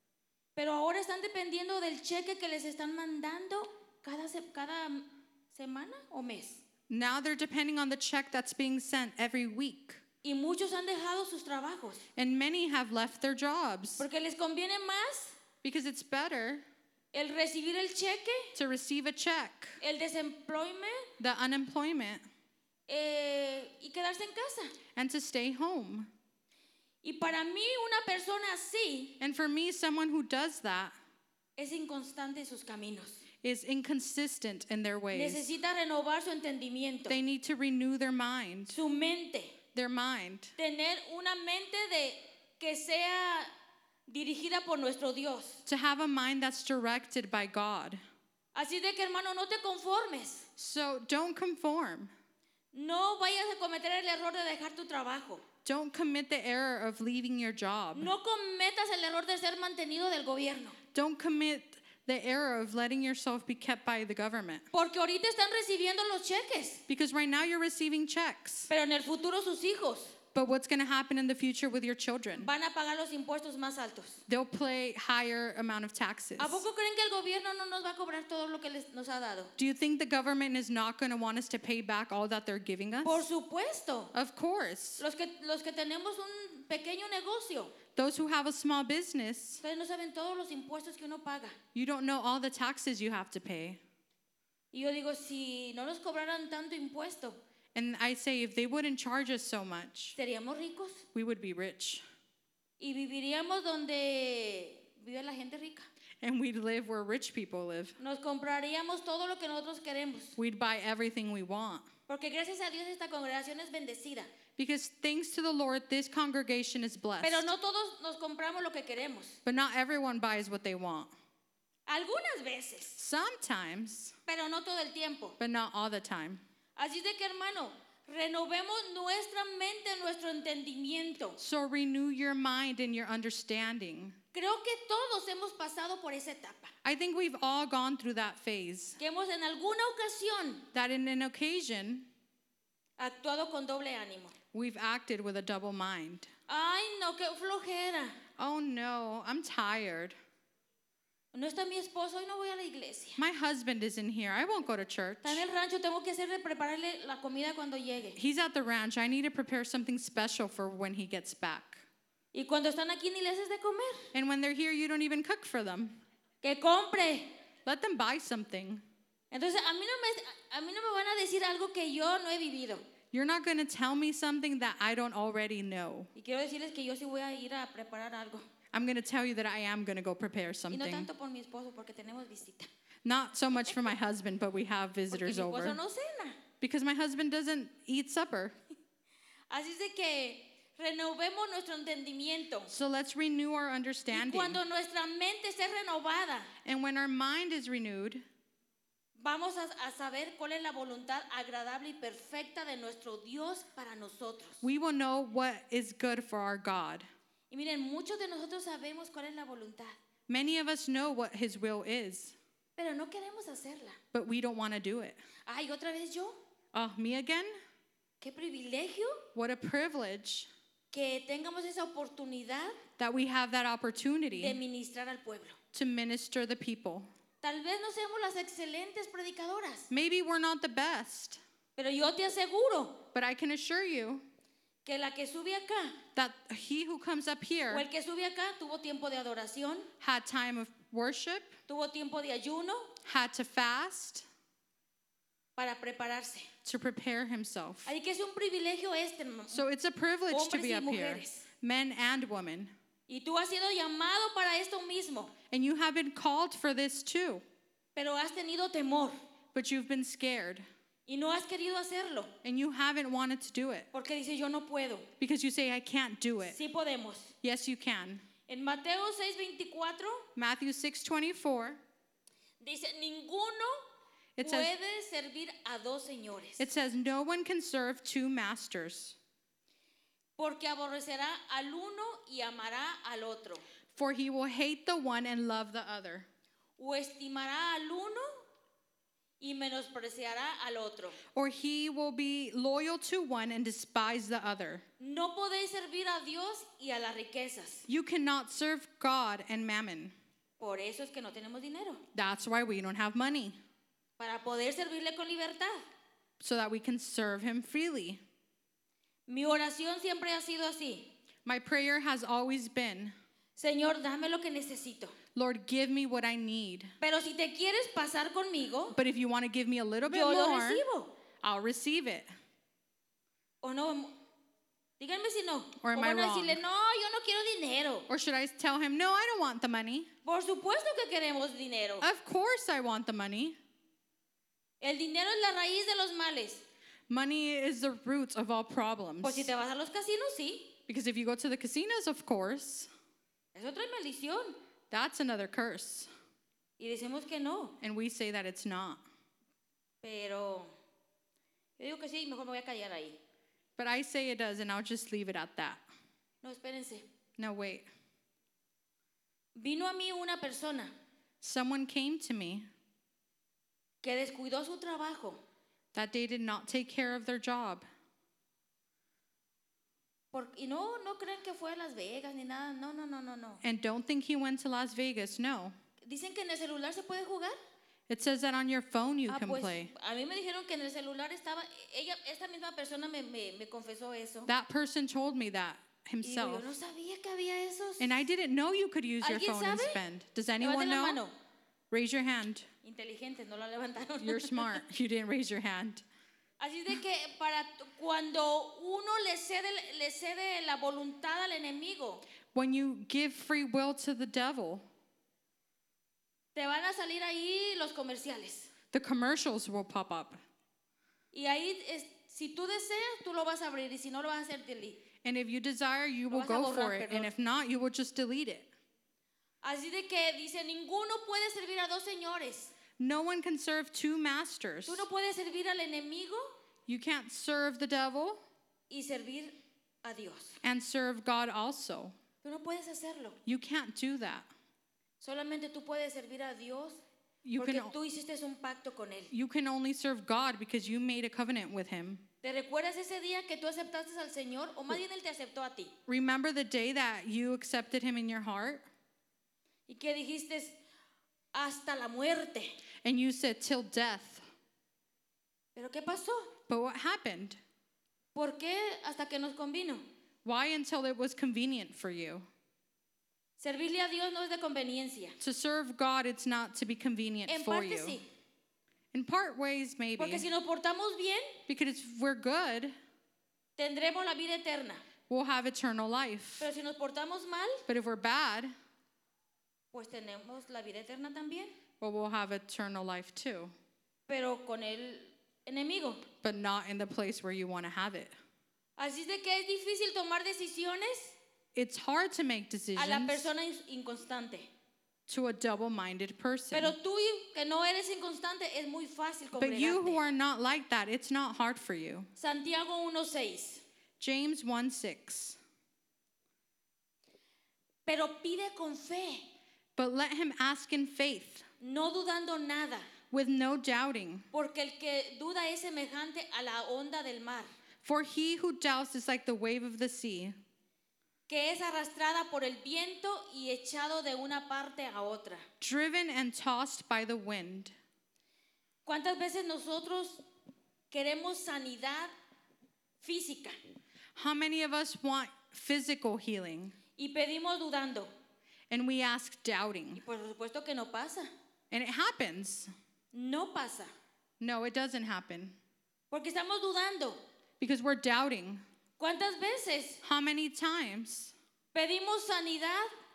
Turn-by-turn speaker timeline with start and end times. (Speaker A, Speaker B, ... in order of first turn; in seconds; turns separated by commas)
Speaker A: 0.6-6.6, Speaker B: 6.9-10.0, Speaker A: 10.2-12.1, Speaker B: 12.2-14.1, Speaker A: 14.0-15.4, Speaker B: 15.6-16.6, Speaker A: 17.1-18.6, Speaker B: 18.6-19.8, Speaker A: 19.8-21.1, Speaker B: 21.2-22.2, Speaker A: 22.9-24.8, Speaker B: 24.9-26.1, Speaker A: 27.0-29.1, Speaker B: 29.2-30.9, Speaker A: 31.6-33.2, Speaker B: 33.4-35.5, Speaker A: 35.1-37.2, Speaker B: 37.1-38.8, Speaker A: 38.7-39.5, Speaker B: 39.7-40.5, Speaker A: 40.6-43.5, Speaker A: 44.1-45.6, Speaker B: 45.6-48.0, Speaker A: 48.5-50.5, Speaker B: 50.6-52.1, Speaker A: 52.7-55.4, Speaker B: 55.6-58.1, Speaker A: 57.9-60.8, Speaker B: 60.9-64.6, Speaker A: 64.7-66.8, Speaker B: 66.9-68.7, Speaker A: 68.7-70.2, Speaker B: 70.3-72.5, Speaker A: 72.3-74.2, Speaker B: 74.3-76.6, Speaker A: 76.4-79.5, Speaker B: 79.6-83.2, Speaker A: 83.0-84.1, Speaker B: 84.1-85.0, Speaker A: 85.0-87.8, Speaker B: 88.0-89.6, Speaker A: 89.6-91.6, Speaker B: 91.8-93.8, Speaker A: 94.7-97.4, Speaker B: 97.7-100.2, Speaker A: 100.2-101.1, Speaker B: 101.1-102.0, Speaker A: 102.8-105.9, Speaker B: 106.2-108.0, Speaker A: 108.0-110.4, Speaker B: 110.4-111.9, Speaker A: 112.1-114.3, Speaker B: 114.6-117.5, Speaker A: 117.2-119.4, Speaker B: 119.4-121.1, Speaker A: 121.9-123.0, Speaker B: 122.9-124.1, Speaker A: 124.3-125.4, Speaker B: 125.4-126.4, Speaker A: 126.8-131.4, Speaker B: 131.4-134.2, Speaker A: 134.3-136.7, Speaker B: 136.8-139.0, Speaker A: 139.0-140.7, Speaker B: 140.7-142.1, Speaker A: 143.0-144.3, Speaker B: 144.5-146.3, Speaker A: 146.5-148.2, Speaker B: 148.4-150.1, Speaker A: 151.3-153.2, Speaker B: 153.2-155.4, Speaker A: 155.2-158.2, Speaker B: 158.2-161.8, Speaker A: 162.3-164.1, Speaker B: 164.1-166.0, Speaker A: 166.4-167.3, Speaker B: 167.7-168.8, Speaker A: 169.3-172.8, Speaker B: 173.1-176.1, Speaker A: 176.1-178.4, Speaker B: 178.7-181.1, Speaker A: 180.7-182.7, Speaker B: 183.0-185.8, Speaker A: 185.1-186.4, Speaker B: 186.6-188.6, Speaker A: 189.5-192.7, Speaker B: 192.7-194.6, Speaker A: 194.1-196.5, Speaker B: 196.6-198.2, Speaker A: 199.2-204.6, Speaker B: 204.6-207.1, Speaker A: 207.5-210.0, Speaker B: 210.3-212.4, Speaker A: 212.8-214.0, Speaker B: 214.1-215.2, Speaker A: 215.5-216.4, Speaker B: 216.7-217.5, Speaker A: 218.2-219.2, Speaker B: 219.3-220.5, Speaker A: 220.9-222.8, Speaker B: 223.0-224.6, Speaker A: 224.3-225.6, Speaker B: 225.7-227.1, Speaker A: 227.4-229.9, Speaker B: 229.9-231.4, Speaker A: 231.8-233.1, Speaker B: 233.1-234.2, Speaker A: 234.8-236.0, Speaker B: 236.1-237.8, Speaker A: 237.7-239.9, Speaker B: 240.0-241.6, Speaker A: 241.7-242.9, Speaker B: 243.0-244.2, Speaker A: 245.6-246.5, Speaker B: 246.6-247.9, Speaker A: 247.9-249.6, Speaker B: 249.5-252.7, Speaker A: 250.3-251.5, Speaker A: 253.1-255.3, Speaker B: 255.5-257.4, Speaker A: 257.9-259.1, Speaker B: 259.5-260.6, Speaker A: 261.1-262.3, Speaker B: 262.4-263.9, Speaker A: 263.9-265.1, Speaker B: 265.2-266.6, Speaker A: 266.4-267.3, Speaker B: 267.4-268.2, Speaker A: 268.5-270.2, Speaker B: 270.4-271.8, Speaker A: 272.6-273.8, Speaker B: 274.4-274.7, Speaker A: 274.4-276.6, Speaker B: 276.6-279.1, Speaker A: 280.4-283.6, Speaker B: 283.9-286.3, Speaker A: 286.8-288.4, Speaker A: 289.4-291.2, Speaker B: 291.4-294.8, Speaker A: 295.0-297.9, Speaker B: 297.9-300.1, Speaker A: 300.6-302.0, Speaker B: 302.1-303.6, Speaker A: 304.2-305.9, Speaker B: 306.4-308.2, Speaker A: 309.3-311.1, Speaker B: 311.4-313.1, Speaker A: 313.6-315.1, Speaker B: 315.4-316.9, Speaker A: 317.0-319.0, Speaker B: 318.9-320.8, Speaker A: 320.0-321.1, Speaker B: 321.4-322.3, Speaker A: 323.6-324.1, Speaker A: 325.0-328.1, Speaker B: 325.8-326.6, Speaker B: 328.1-330.1, Speaker A: 330.2-332.1, Speaker B: 332.0-333.6, Speaker A: 334.8-336.6, Speaker B: 337.1-339.5, Speaker A: 339.2-340.8, Speaker B: 340.9-342.9, Speaker A: 343.5-344.6, Speaker B: 344.9-346.1, Speaker A: 346.8-347.8, Speaker B: 347.8-349.0, Speaker A: 350.0-350.7, Speaker A: 351.8-353.2, Speaker B: 353.8-355.8, Speaker A: 356.4-357.1, Speaker B: 357.4-357.9, Speaker A: 359.6-360.9, Speaker B: 361.4-362.7, Speaker A: 364.0-365.4, Speaker B: 365.9-367.8, Speaker A: 370.3-373.6, Speaker B: 373.6-375.8, Speaker A: 376.0-377.6, Speaker B: 378.1-379.9, Speaker A: 379.3-384.5, Speaker B: 384.5-386.7, Speaker A: 386.2-388.1, Speaker B: 388.0-391.2, Speaker A: 389.2-390.0, Speaker A: 390.6-391.3, Speaker B: 391.9-392.6, Speaker A: 392.8-394.8, Speaker B: 394.2-396.0, Speaker A: 396.6-402.2, Speaker B: 402.5-404.8, Speaker A: 406.5-408.7, Speaker B: 408.9-410.4, Speaker A: 411.3-415.0, Speaker B: 415.2-418.7, Speaker A: 416.3-417.3, Speaker A: 419.6-422.7, Speaker B: 423.0-425.1, Speaker A: 424.9-426.5, Speaker B: 426.9-428.4, Speaker A: 428.9-430.6, Speaker B: 430.6-432.1, Speaker A: 432.4-433.4, Speaker B: 433.5-434.5, Speaker A: 435.2-437.0, Speaker B: 437.4-437.9, Speaker A: 437.6-439.3, Speaker B: 439.3-442.2, Speaker A: 442.4-445.9, Speaker B: 446.1-448.9, Speaker A: 449.9-450.8, Speaker A: 451.5-452.8, Speaker B: 453.0-454.4, Speaker A: 455.8-456.5, Speaker B: 456.7-457.6, Speaker A: 458.4-460.0, Speaker B: 460.4-462.5, Speaker A: 463.6-465.4, Speaker B: 465.4-468.2, Speaker A: 467.5-468.2, Speaker B: 469.1-470.5, Speaker A: 470.2-471.6, Speaker B: 471.7-472.9, Speaker A: 473.8-475.0, Speaker B: 475.3-476.7, Speaker A: 476.6-477.8, Speaker B: 477.9-478.7, Speaker A: 479.9-481.7, Speaker B: 482.0-483.7, Speaker A: 484.3-486.2, Speaker B: 486.4-488.3, Speaker A: 489.0-491.4, Speaker B: 491.8-493.5, Speaker A: 493.0-494.7, Speaker B: 495.3-496.9, Speaker A: 496.7-500.2, Speaker B: 499.5-502.3, Speaker A: 502.4-503.8, Speaker B: 504.2-505.6, Speaker A: 508.1-509.5, Speaker B: 510.0-511.6, Speaker A: 511.8-513.1, Speaker B: 513.3-514.5, Speaker A: 514.5-517.7, Speaker B: 518.0-520.5, Speaker A: 521.5-525.7, Speaker B: 525.8-527.9, Speaker A: 529.0-530.4, Speaker A: 531.1-532.3, Speaker A: 533.2-533.8, Speaker B: 534.4-536.9, Speaker A: 537.2-538.3, Speaker B: 538.9-540.2, Speaker A: 540.1-541.5, Speaker B: 541.9-542.9, Speaker A: 543.3-544.1, Speaker B: 544.6-545.8, Speaker A: 546.3-547.4, Speaker B: 547.8-548.8, Speaker A: 549.2-550.2, Speaker B: 550.2-551.5, Speaker A: 551.9-553.1